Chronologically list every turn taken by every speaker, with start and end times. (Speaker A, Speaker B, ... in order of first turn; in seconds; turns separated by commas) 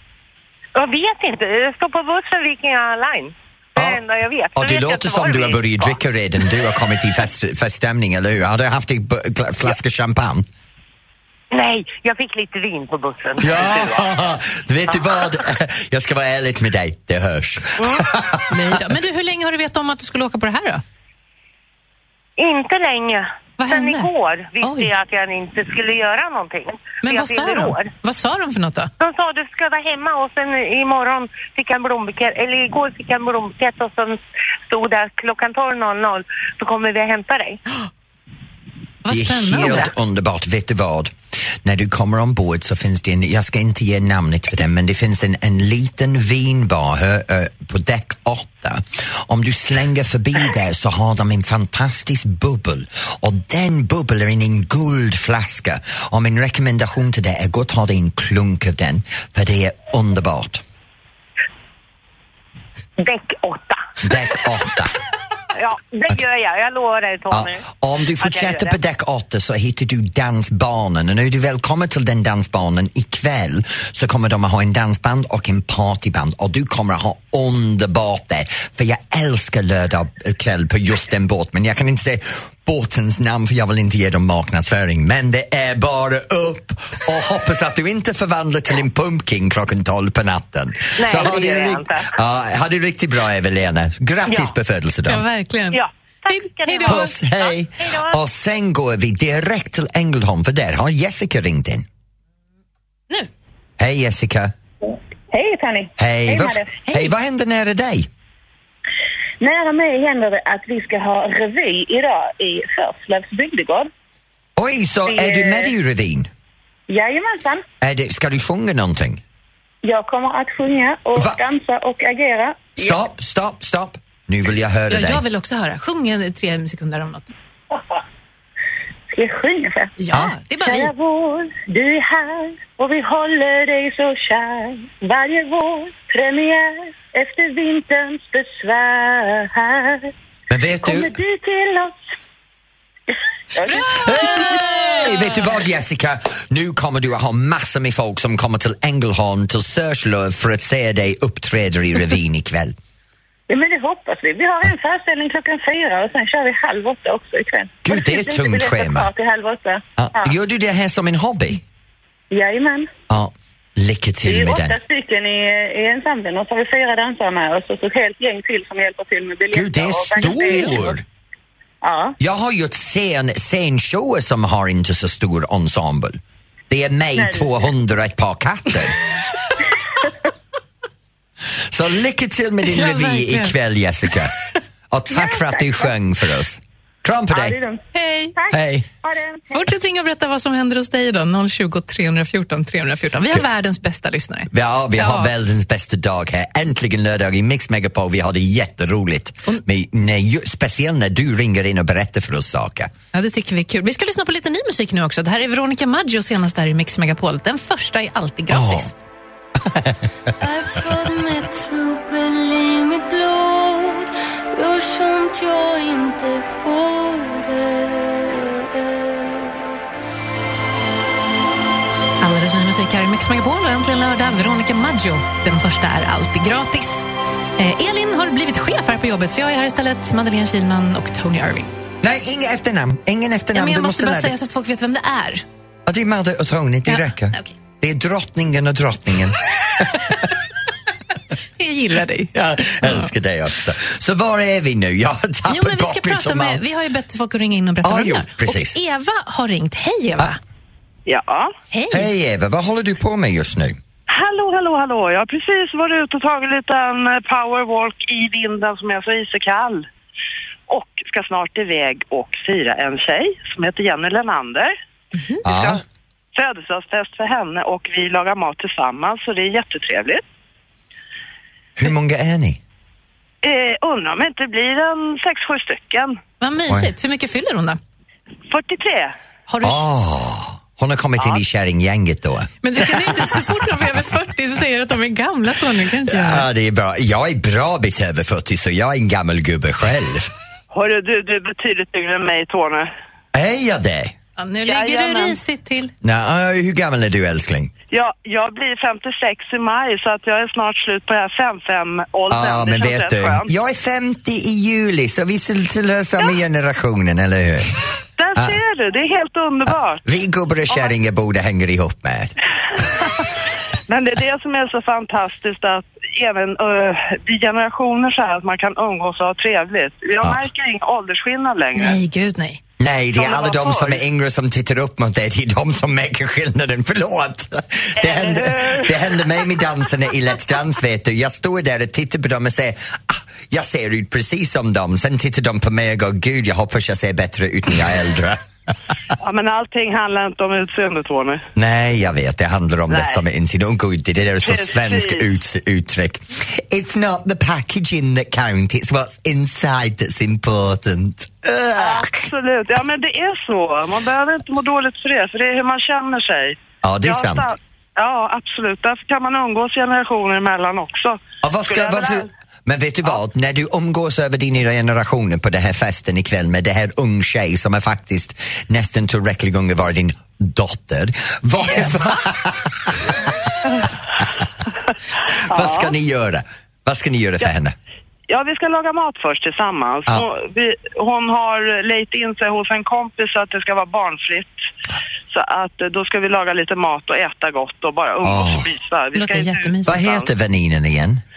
Speaker A: 0.8-6.0, Speaker B: 3.8-4.0, Speaker B: 4.6-10.5, Speaker A: 11.5-14.1, Speaker B: 13.4-18.8, Speaker A: 17.8-18.1, Speaker C: 18.5-20.8, Speaker A: 22.4-27.9, Speaker C: 23.6-24.1, Speaker C: 24.6-24.9, Speaker C: 27.0-28.9, Speaker A: 29.0-37.6, Speaker C: 39.0-39.9, Speaker B: 39.1-60.6, Speaker A: 63.0-63.9, Speaker B: 64.0-65.0, Speaker A: 65.5-67.6, Speaker B: 67.3-95.2, Speaker A: 68.2-68.8, Speaker A: 91.0-92.1, Speaker A: 94.3-94.5, Speaker C: 95.1-97.1, Speaker A: 95.7-98.2, Speaker B: 96.8-101.9, Speaker B: 103.8-104.5, Speaker D: 105.3-106.7, Speaker B: 106.0-108.1, Speaker C: 106.9-107.1, Speaker D: 109.4-113.9, Speaker B: 114.6-116.3, Speaker D: 115.1-115.7, Speaker D: 116.9-117.6, Speaker B: 117.8-119.2, Speaker D: 119.8-123.0, Speaker B: 122.8-125.2, Speaker C: 124.9-127.3, Speaker D: 129.1-129.9, Speaker C: 130.0-130.9, Speaker D: 130.6-140.1, Speaker B: 140.5-141.1, Speaker D: 140.8-142.0, Speaker D: 143.6-144.6, Speaker B: 143.8-152.8, Speaker C: 144.0-144.7, Speaker D: 153.5-160.3, Speaker B: 157.8-159.1, Speaker B: 160.0-161.6, Speaker D: 162.3-162.9, Speaker B: 163.1-164.8, Speaker D: 164.2-171.0, Speaker B: 169.5-171.0, Speaker C: 170.3-170.7, Speaker D: 171.8-172.1, Speaker B: 172.2-179.0, Speaker D: 177.2-177.5, Speaker B: 181.7-184.3, Speaker C: 182.7-183.6, Speaker B: 184.9-187.6, Speaker D: 185.1-185.9, Speaker D: 187.3-187.8, Speaker C: 187.9-188.3, Speaker D: 188.3-189.7, Speaker B: 188.5-188.9, Speaker C: 189.5-195.3, Speaker B: 194.5-202.9, Speaker C: 203.1-208.9, Speaker B: 208.5-208.9, Speaker B: 209.6-210.0, Speaker E: 210.4-219.7, Speaker C: 222.2-227.1, Speaker C: 227.6-231.7, Speaker B: 232.0-234.4, Speaker C: 233.5-235.4, Speaker B: 235.9-240.2, Speaker C: 236.9-237.5, Speaker C: 241.6-243.1, Speaker B: 242.3-246.6, Speaker C: 245.5-250.4, Speaker B: 247.8-248.8, Speaker F: 251.1-251.5, Speaker C: 251.7-252.1, Speaker B: 251.9-253.8, Speaker F: 254.1-259.9, Speaker F: 260.7-264.7, Speaker C: 265.1-265.4, Speaker F: 265.4-265.8, Speaker B: 265.4-265.8, Speaker F: 266.3-270.2, Speaker B: 271.8-272.6, Speaker F: 273.4-276.2, Speaker C: 276.4-277.8, Speaker F: 278.5-279.1, Speaker C: 279.5-279.9, Speaker B: 279.6-283.2, Speaker C: 282.6-286.5, Speaker B: 286.1-290.3, Speaker F: 290.7-292.9, Speaker B: 293.3-294.1, Speaker C: 294.4-295.9, Speaker F: 294.7-295.4, Speaker B: 296.0-297.7, Speaker F: 297.9-303.5, Speaker B: 302.3-307.7, Speaker F: 308.2-310.0, Speaker B: 309.7-312.3, Speaker F: 313.0-313.3, Speaker F: 313.9-322.0, Speaker C: 321.8-322.6, Speaker B: 322.8-338.4, Speaker F: 323.1-324.0, Speaker F: 328.0-329.4, Speaker F: 339.2-341.4, Speaker B: 341.6-352.1, Speaker F: 342.9-343.2, Speaker F: 344.4-345.3, Speaker F: 351.8-362.3, Speaker B: 356.8-357.5, Speaker B: 361.4-373.2, Speaker B: 375.4-377.8, Speaker F: 375.5-375.9, Speaker F: 378.3-384.6, Speaker F: 385.3-390.3, Speaker B: 388.2-388.7, Speaker C: 389.1-390.1, Speaker B: 389.9-391.2